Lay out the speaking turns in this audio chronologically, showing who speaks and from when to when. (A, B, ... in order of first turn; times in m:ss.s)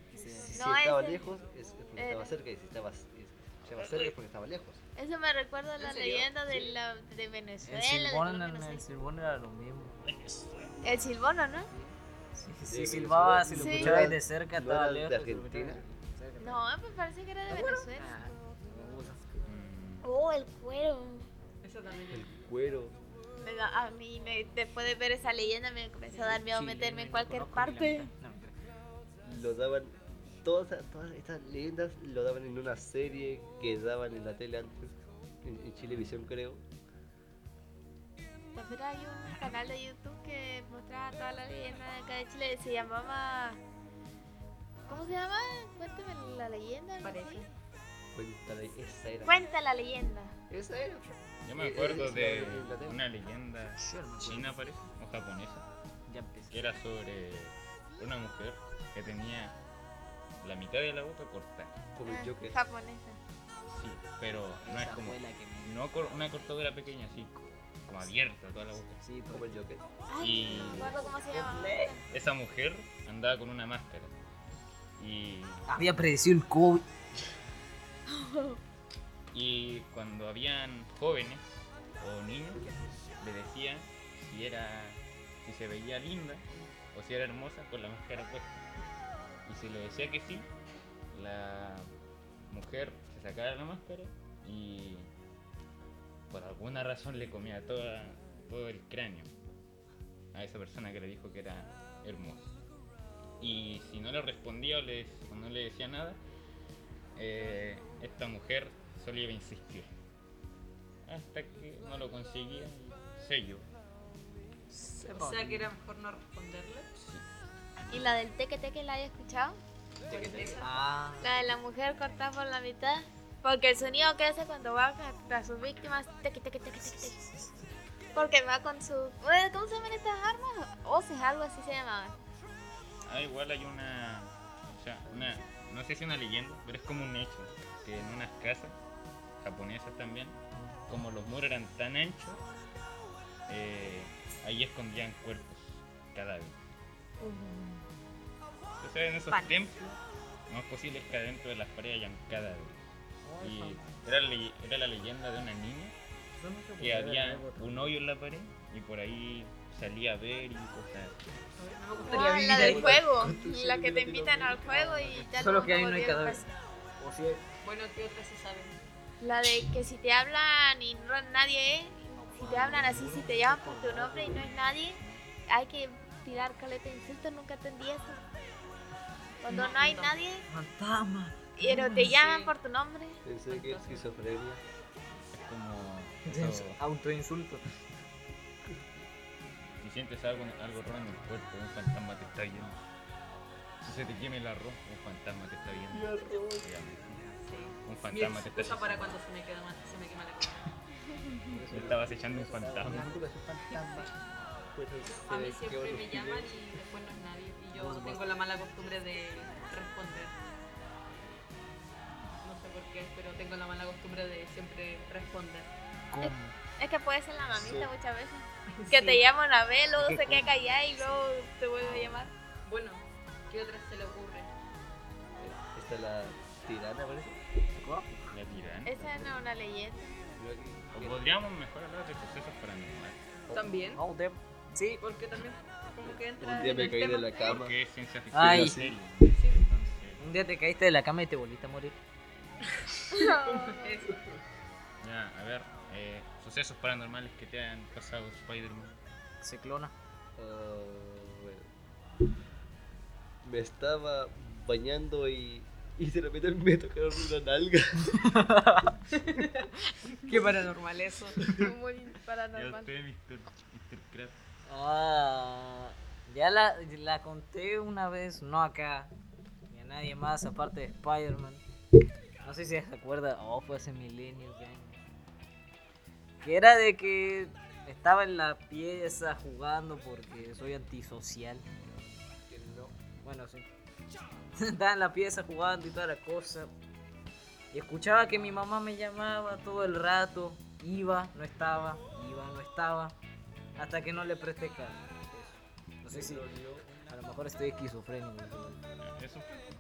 0:00.1-0:00.5 A
0:00.2-0:04.8 B
0:00.5-0:01.2 C
0:02.0-0:02.4 C
0:05.0-0:08.8 C
0:05.8-0:06.3 D
0:07.6-0:10.0 A
0:10.1-0:10.8 E
0:10.8-0:11.7 C
0:11.7-0:16.6 A
0:12.7-0:15.8 B
0:13.6-0:14.0 C
0:16.4-0:18.1 C
0:17.5-0:19.4 A
0:19.4-0:20.1 E
0:20.0-0:21.3 C
0:21.6-0:22.3 D
0:22.1-0:23.0 B
0:23.4-0:28.1 C
0:26.1-0:26.4 D
0:26.2-0:28.5 A
0:29.2-0:36.6 B
0:38.5-0:43.6 C
0:44.9-0:47.5 C
0:47.0-0:47.5 D
0:48.1-0:49.3 B
0:49.2-0:50.4 C
0:50.5-0:53.0 B
0:51.4-0:55.6 E
0:53.8-0:54.7 A
0:56.1-0:56.7 A
0:56.5-0:59.6 E
1:00.4-1:01.8 E
1:01.9-1:02.6 B
1:02.1-1:03.2 C
1:03.7-1:09.0 E
1:04.6-1:06.3 A
1:09.0-1:09.5 A
1:09.3-1:09.8 B
1:10.1-1:12.0 C
1:10.2-1:11.0 E
1:10.7-1:12.0 A
1:12.1-1:14.1 E
1:15.0-1:15.6 E
1:15.7-1:16.9 A
1:18.1-1:18.6 C
1:19.3-1:28.6 E
1:29.4-1:30.5 E
1:31.1-1:31.9 E
1:32.5-1:35.1 E
1:36.3-1:39.3 E
1:40.3-1:42.5 E
1:43.4-1:46.2 E
1:47.1-1:49.9 E
1:51.0-1:53.7 E
1:54.7-1:55.7 A
1:55.0-1:56.9 D
1:57.0-1:57.2 E
1:57.9-1:59.6 C
2:00.0-2:00.6 B
2:00.1-2:00.7 D
2:00.6-2:01.4 A
2:01.2-2:07.2 C
2:06.8-2:07.5 A
2:08.1-2:12.2 C
2:13.0-2:18.8 E
2:19.4-2:22.4 E
2:23.5-2:26.6 E
2:27.2-2:27.8 A
2:28.8-2:32.8 E
2:33.2-2:33.8 A
2:33.4-2:36.0 E
2:36.4-2:37.9 A
2:36.8-2:41.2 E
2:41.6-2:43.0 D
2:42.0-2:45.3 B
2:42.1-2:46.5 C
2:45.3-2:46.5 A
2:47.0-2:47.4 A
2:47.6-2:48.8 D
2:49.2-2:58.2 C
2:52.4-2:54.5 A
2:59.4-3:00.4 C
2:59.5-3:00.2 D
3:00.5-3:02.1 A
3:01.6-3:03.2 C
3:01.8-3:02.5 D
3:03.2-3:04.6 B
3:03.5-3:04.0 D
3:05.3-3:06.8 E
3:06.2-3:07.7 A
3:09.8-3:12.8 E
3:13.8-3:17.3 E
3:15.9-3:16.7 B
3:17.4-3:20.7 D
3:17.8-3:19.2 E
3:21.5-3:23.3 A
3:21.7-3:23.2 E
3:22.8-3:24.1 B
3:24.7-3:26.5 B
3:25.0-3:30.3 D
3:27.7-3:28.3 A
3:32.4-3:35.7 D
3:36.1-3:36.5 A
3:36.2-3:42.3 C
3:37.6-3:37.9 B
3:38.7-3:39.2 D
3:41.8-3:42.3 A
3:42.6-3:44.5 D
3:45.4-3:47.4 B
3:47.8-3:48.2 A
3:48.3-3:49.2 E
3:48.8-3:50.2 C
3:50.4-3:51.3 B
3:50.9-3:53.3 E
3:53.5-3:54.0 D
3:53.9-3:55.0 A
3:55.0-3:57.6 D
3:56.0-3:57.8 B
3:57.4-4:00.2 E
3:58.3-3:58.8 A
3:58.4-3:58.9 B
4:00.2-4:02.0 A
4:03.1-4:04.0 C
4:03.1-4:04.2 D
4:05.0-4:09.0 E
4:09.4-4:09.9 A
4:10.4-4:11.7 B
4:13.4-4:18.3 B
4:18.1-4:19.0 A
4:19.1-4:21.4 D
4:21.5-4:22.9 C
4:22.5-4:24.4 E
4:24.7-4:29.1 A
4:29.7-4:31.6 A
4:32.4-4:35.0 A
4:36.4-4:41.7 A
4:42.5-4:42.9 B
4:43.2-4:43.7 A
4:44.6-4:46.7 A
4:47.7-4:53.1 A
4:53.8-4:56.4 A
4:56.1-4:56.9 B
4:57.1-4:58.8 A
4:59.0-4:59.6 E